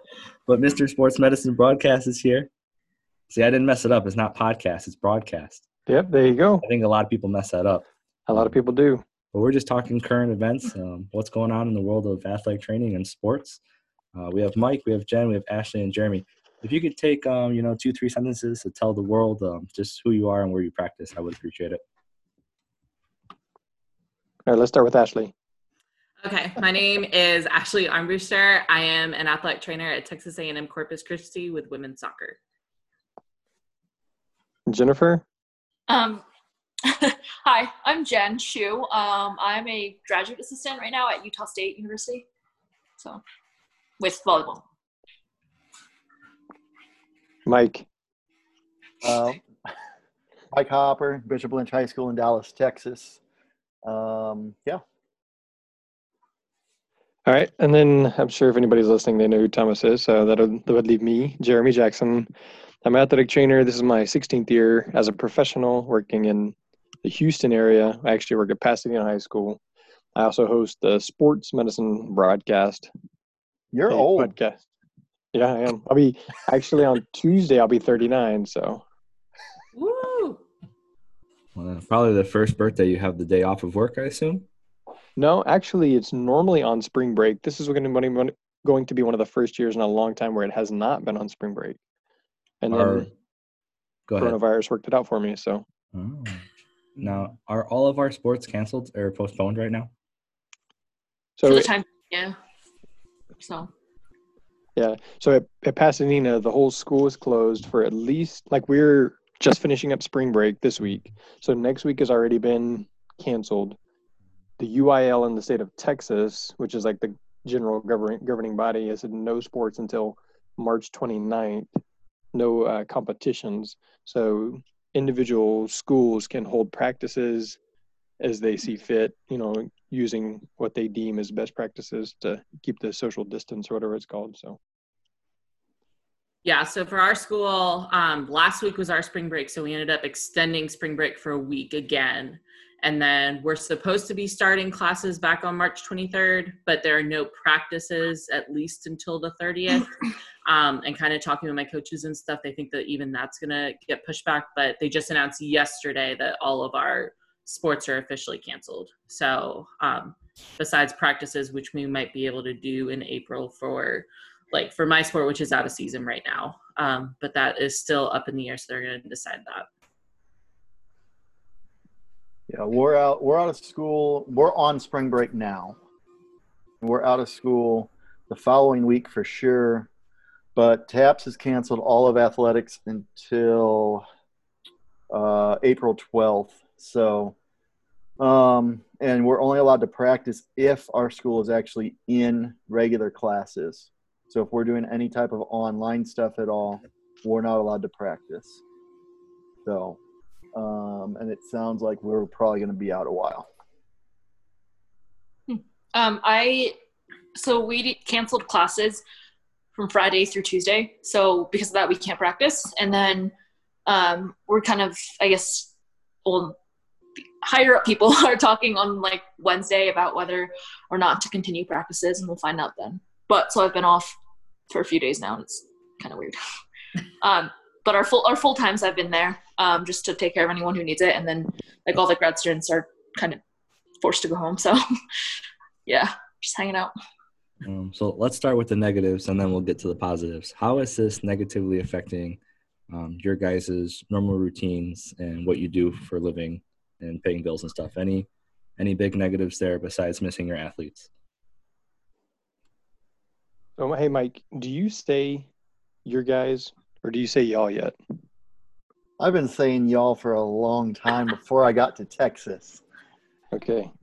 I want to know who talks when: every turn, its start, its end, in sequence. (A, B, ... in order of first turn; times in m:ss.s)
0:00.5-0:02.5 A
0:03.3-0:05.6 A
0:05.9-0:06.6 B
0:06.6-0:08.6 A
0:08.3-0:09.0 B
0:09.3-0:13.6 A
0:14.2-0:21.8 A
0:24.4-0:25.3 B
0:26.2-0:32.4 C
0:34.7-0:35.2 B
0:35.9-0:36.2 D
0:36.8-0:42.2 D
0:44.0-0:44.6 D
0:47.4-0:47.8 B
0:49.0-0:49.4 E
0:50.5-0:53.2 E
0:53.8-0:54.8 E
0:57.2-1:02.3 B
1:02.8-1:09.6 B
1:10.2-1:12.9 B
1:13.7-1:14.3 E
1:13.9-1:14.6 B
1:15.3-1:18.8 B
1:19.8-1:20.4 C
1:21.6-1:24.5 A
1:25.2-1:31.8 B
1:32.6-1:33.1 B
1:32.7-1:33.1 A
1:34.1-1:34.4 A
1:34.2-1:35.6 B
1:35.9-1:36.4 A
1:37.0-1:39.9 A
1:41.4-1:41.7 B
1:41.4-1:42.3 D
1:43.4-1:43.7 D
1:44.8-1:53.8 B
1:54.6-2:01.7 B
2:02.3-2:07.6 B
2:08.2-2:14.6 B
2:16.4-2:49.7 C
2:52.5-2:55.8 E
2:56.8-2:59.9 E
3:00.6-3:04.0 E
3:05.1-3:07.4 E
3:08.2-3:18.6 E
3:19.6-3:20.0 E
3:20.5-3:23.5 E
3:25.5-3:26.8 D
3:27.3-3:29.0 D
3:29.8-3:33.3 D
3:33.8-3:35.7 D
3:36.2-3:36.6 D
3:37.4-3:44.1 D
3:44.7-3:46.4 D
3:47.2-3:53.4 D
3:54.0-3:54.8 D
3:55.8-3:56.9 D
3:57.6-4:02.4 A
4:02.9-4:11.1 A
4:13.8-4:15.5 B
4:16.0-4:18.0 B
4:19.2-4:22.8 E
4:23.5-4:23.9 B